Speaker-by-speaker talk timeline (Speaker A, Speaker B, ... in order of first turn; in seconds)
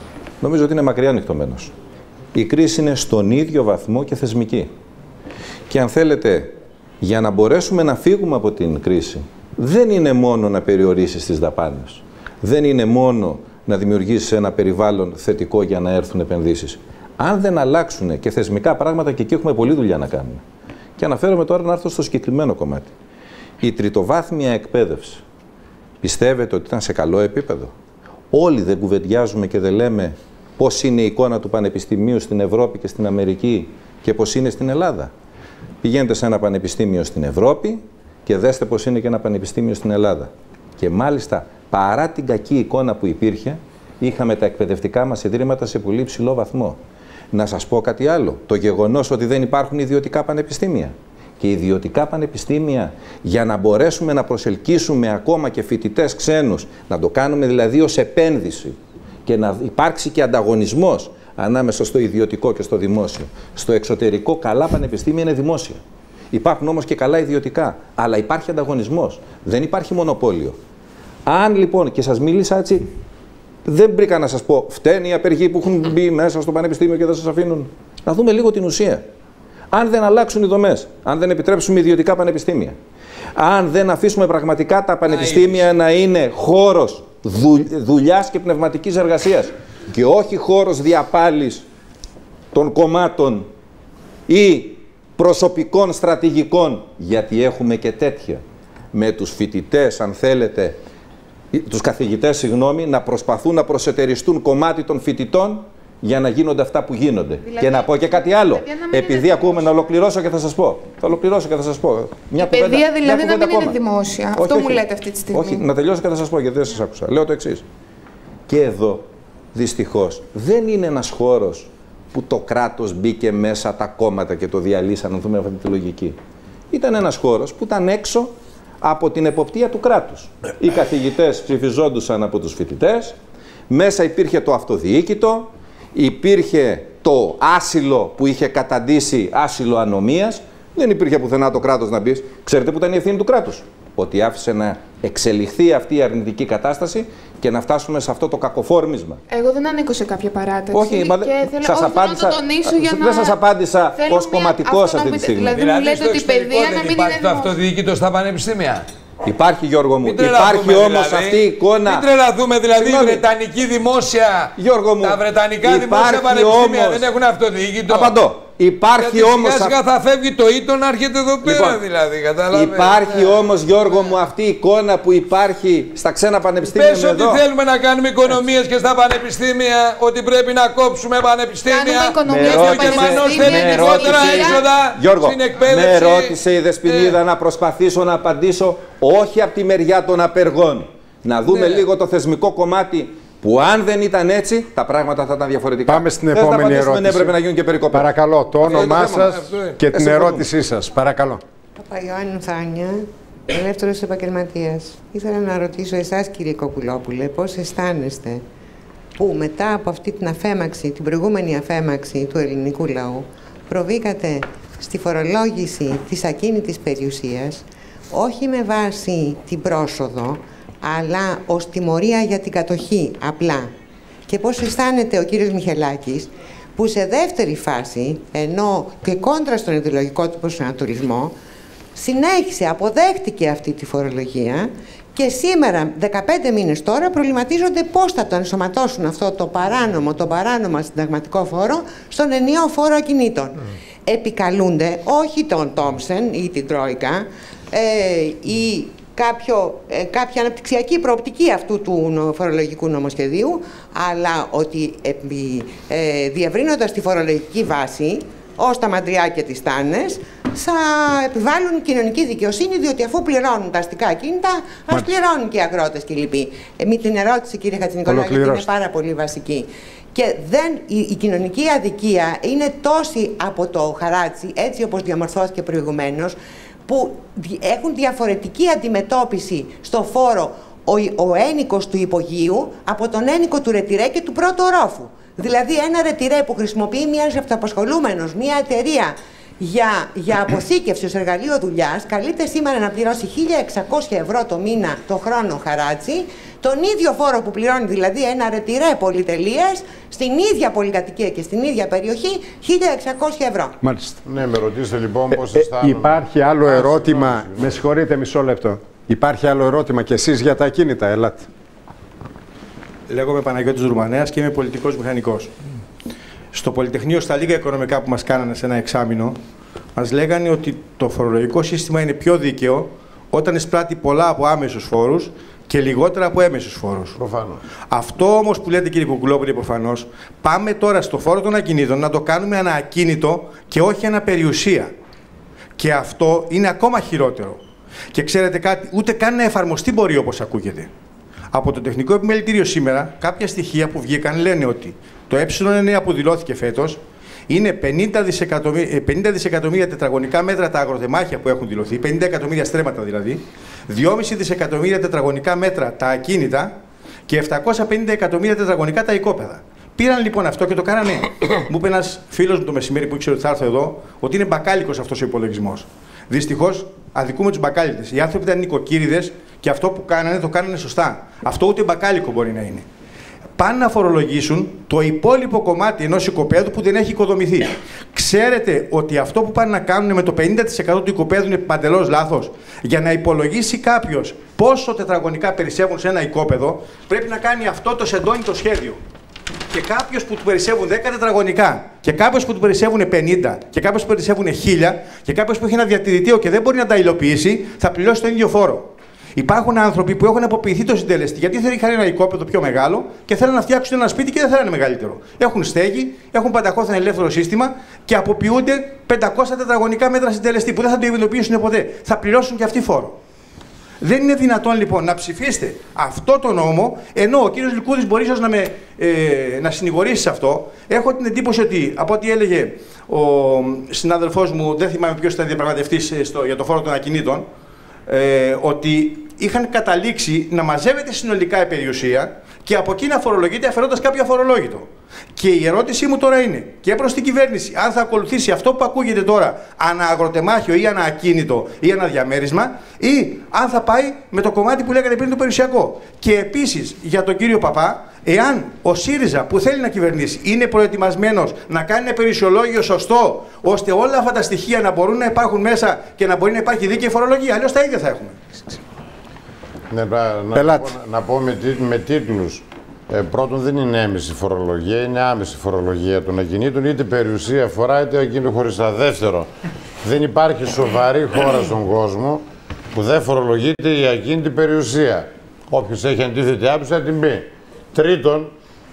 Speaker A: 0.4-1.7, 2.3-4.7, 5.7-20.4, 21.0-22.9, 23.6-25.2, 26.0-27.7, 28.3-35.1, 35.8-46.8, 47.3-65.8, 66.3-70.6, 71.3-72.9, 73.7-79.0, 79.7-82.8, 83.4-91.7, 92.5-93.5, 94.3-98.4, 98.9-100.8, 101.5-113.8, 114.4-117.6, 118.5-126.2, 126.7-133.2, 133.7-149.2, 150.7-155.6, 159.2-162.1, 162.7-163.2, 164.6-167.1, 167.9-169.8, 171.4-171.8, 172.5-177.4, 182.3-198.1, 198.7-200.5
Speaker B: 85.1-85.7, 155.5-158.9, 160.0-168.2, 169.0-173.4, 176.7-187.2, 191.5-191.8, 198.7-199.0
Speaker C: 107.4-109.9, 112.4-115.6, 149.3-153.4, 153.9-157.6, 181.7-184.7
Speaker D: 195.9-197.3, 197.9-201.4, 268.1-268.7, 303.8-304.2, 305.3-311.5, 460.6-460.9
Speaker E: 201.8-208.4, 209.2-223.7, 224.3-231.3, 231.9-303.8
Speaker F: 304.2-307.8, 327.2-327.6, 459.9-469.5, 470.0-472.4, 472.9-478.5
Speaker G: 313.1-315.5, 316.5-319.4, 320.0-327.2, 327.9-334.9, 335.8-337.6, 338.1-340.9, 341.5-356.7, 357.3-372.9, 373.6-389.0, 389.7-413.2, 414.0-427.5, 428.1-458.8